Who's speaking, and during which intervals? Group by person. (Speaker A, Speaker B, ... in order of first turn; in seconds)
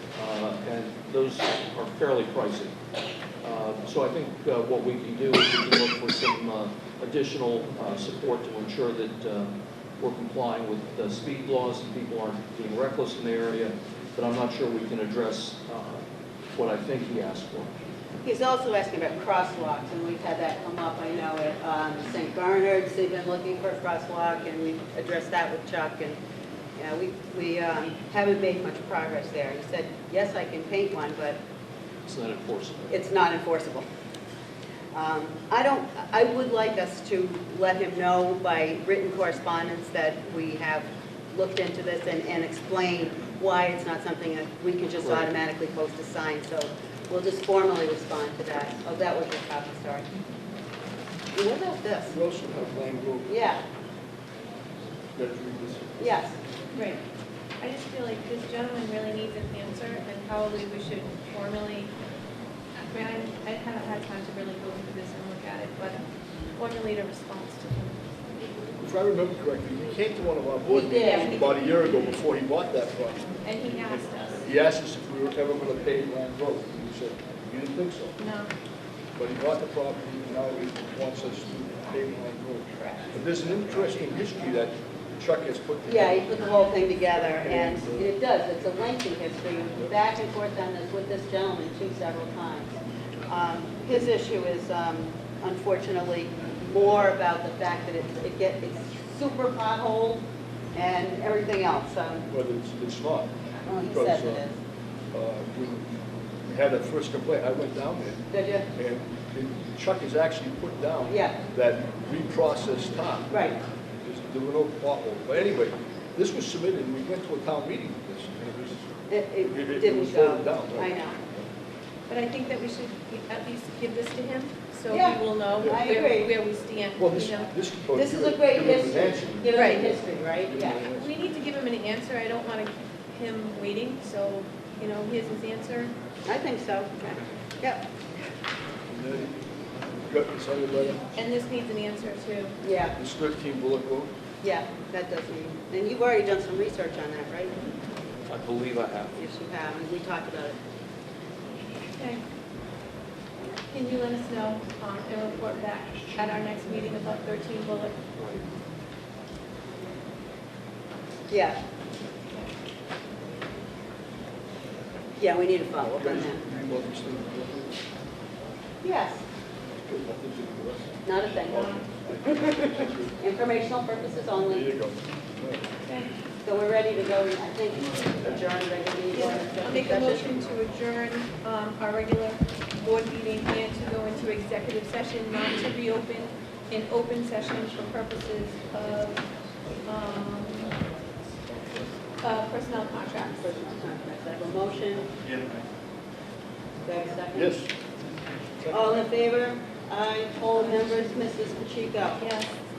Speaker A: 0.1-2.7, 3.4-16.0, 16.5-17.7, 32.0-33.1, 45.0-45.3, 148.3-149.2, 158.2-158.4
Speaker B: 18.2-26.2, 26.8-31.4, 32.9-33.9, 34.9-50.0, 51.3-52.1, 53.3-53.6, 56.0-56.9, 70.6-71.3, 85.9-92.7, 93.3-100.2, 100.7-102.2, 103.6-104.5, 108.3-108.7, 111.1-111.3, 113.3-113.6, 119.1-121.2, 124.9-126.3, 127.9-130.8, 136.2-137.8, 142.6-142.9, 144.4-147.5, 149.1-150.6, 161.3-161.6, 165.2-166.4, 168.8-169.2, 171.0-174.7, 176.4-180.3, 193.4-195.1, 196.8-197.5, 198.7-202.2
Speaker C: 52.1-53.5, 55.1-56.2, 68.8-73.3, 74.4-78.2, 79.2-86.4, 87.2-88.1, 102.3-104.4, 105.1-105.9, 106.4-113.4, 114.0-118.8, 119.5-121.5, 125.6-125.8, 127.0-131.1, 138.9-139.3, 140.1-141.0, 142.9-144.1, 165.8-167.7, 169.8-170.9, 171.5-173.1, 174.5-175.6, 197.3-197.7, 198.6-198.9
Speaker D: 57.6-61.9, 62.8-66.0, 66.6-68.0, 71.0-71.5, 73.4-74.4, 78.2-78.5, 122.1-127.5, 129.5-129.8, 130.9-135.9, 141.1-142.6, 152.0-152.2, 153.7-158.0, 179.1-189.2, 189.8-190.8, 192.2-193.4, 202.2-202.5